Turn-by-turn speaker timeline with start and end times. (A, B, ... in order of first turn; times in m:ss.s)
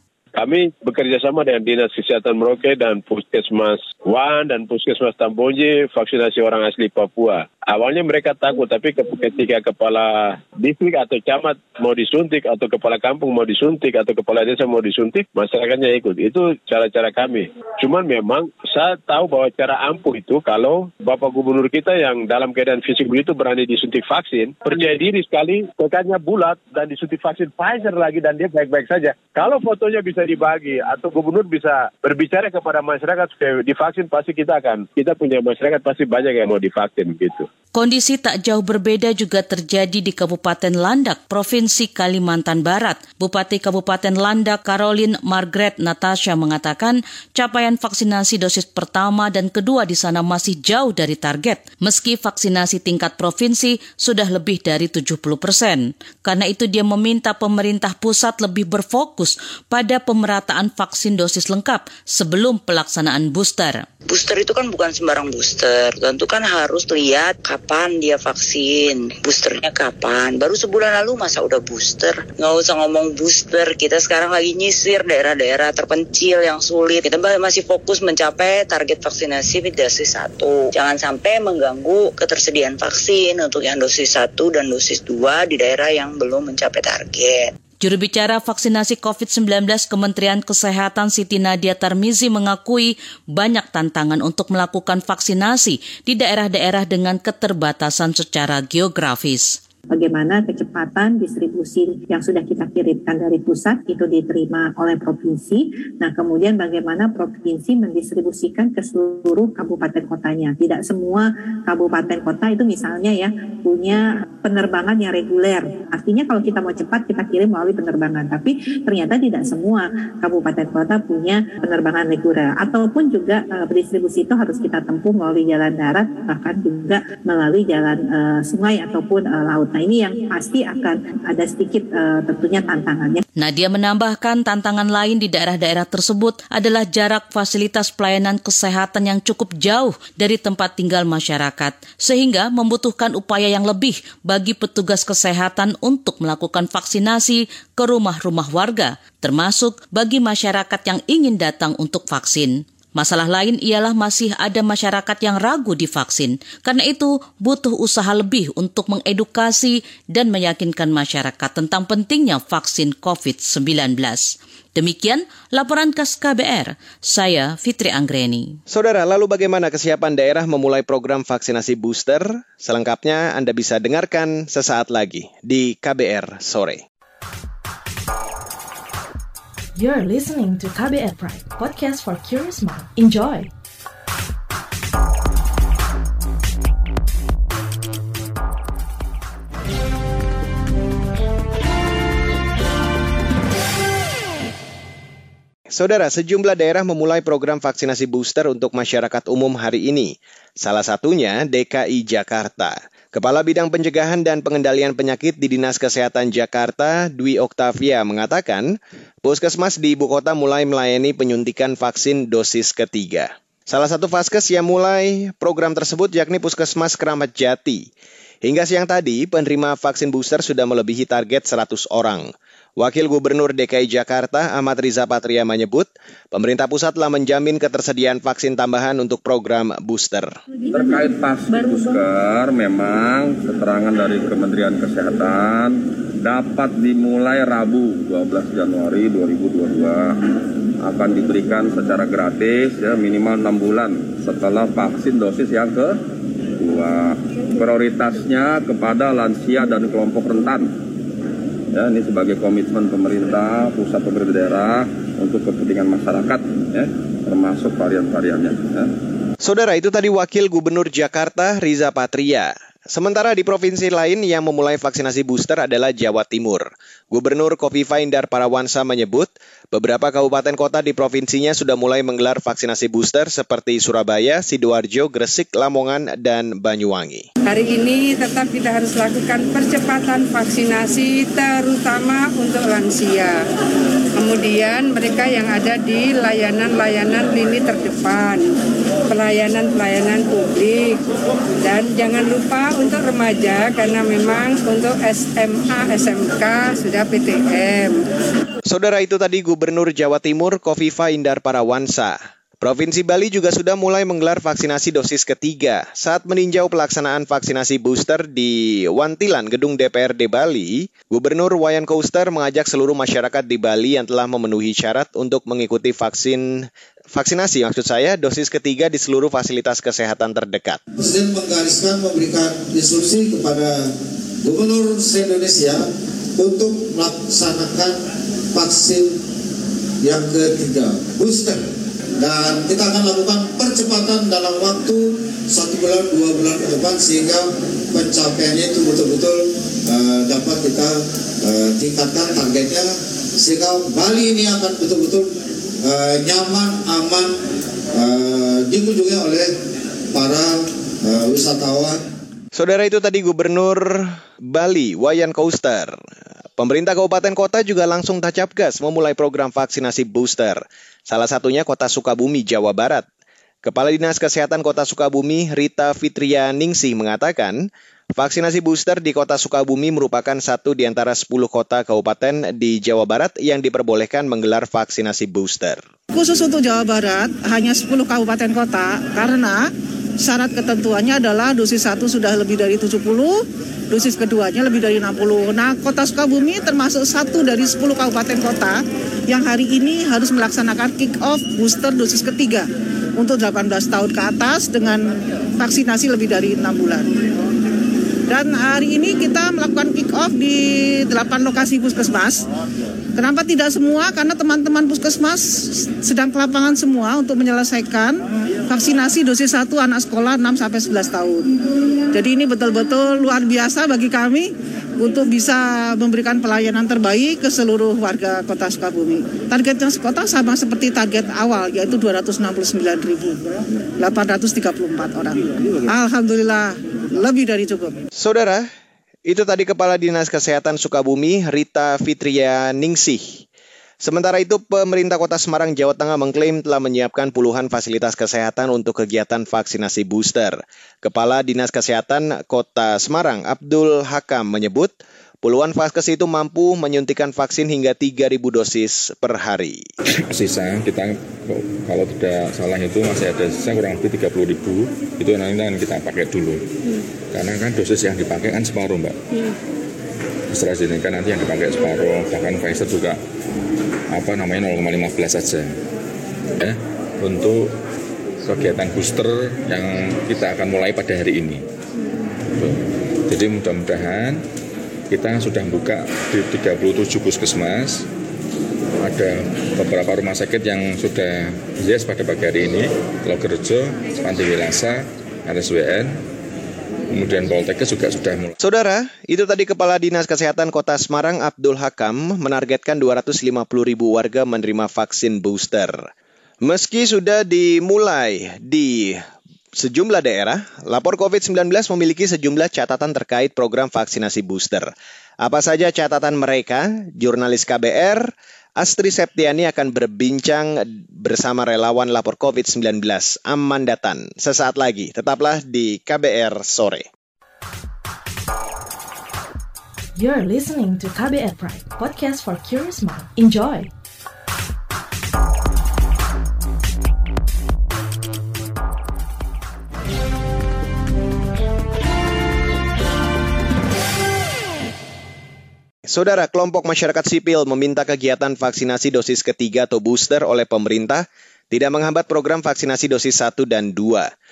0:00.4-0:37.5 A
0:37.8-1:03.8 B
1:04.1-1:27.5 C
1:27.8-1:39.6 B
1:39.9-2:13.2 D
2:13.4-2:48.6 B
2:48.7-2:56.8 E
2:59.8-3:03.5 F
3:15.7-3:37.9 E
3:38.4-3:50.3 E
3:50.7-4:00.2 G
4:00.8-4:06.0 G
4:06.6-4:10.7 G
4:11.7-4:18.9 G
4:19.4-4:37.2 E
4:37.4-4:43.4 H
4:44.2-4:48.5 H
4:49.1-4:51.0 H
4:51.6-4:58.0 H
4:58.7-5:20.8 E
5:21.0-5:29.2 I
5:30.0-5:31.6 I
5:32.2-5:47.4 I
5:47.9-5:49.5 I
5:50.1-5:52.0 I
5:52.5-5:56.0 E
5:56.6-6:03.0 E
6:03.6-6:15.8 E
6:16.1-6:35.0 J
6:35.6-6:37.1 J
6:38.3-6:42.4 J
6:43.2-6:51.4 J
6:52.1-7:03.4 J
7:04.0-7:08.0 J
7:08.2-7:08.7 E
7:09.2-7:13.4 E
7:14.0-7:29.8 E
7:30.3-7:36.6 K
7:37.3-7:39.2 K
7:40.5-7:43.2 K
7:44.1-7:45.7 K
7:46.6-7:47.7 K
7:48.4-7:51.6 K
7:52.6-7:54.4 K
7:55.1-7:58.1 K
7:59.0-8:06.2 K
8:07.1-8:08.5 K
8:08.6-8:16.0 E
8:16.6-8:19.2 E
8:19.8-8:24.9 E
8:25.4-8:37.0 E
8:40.2-8:43.9 F
8:56.1-9:04.3 E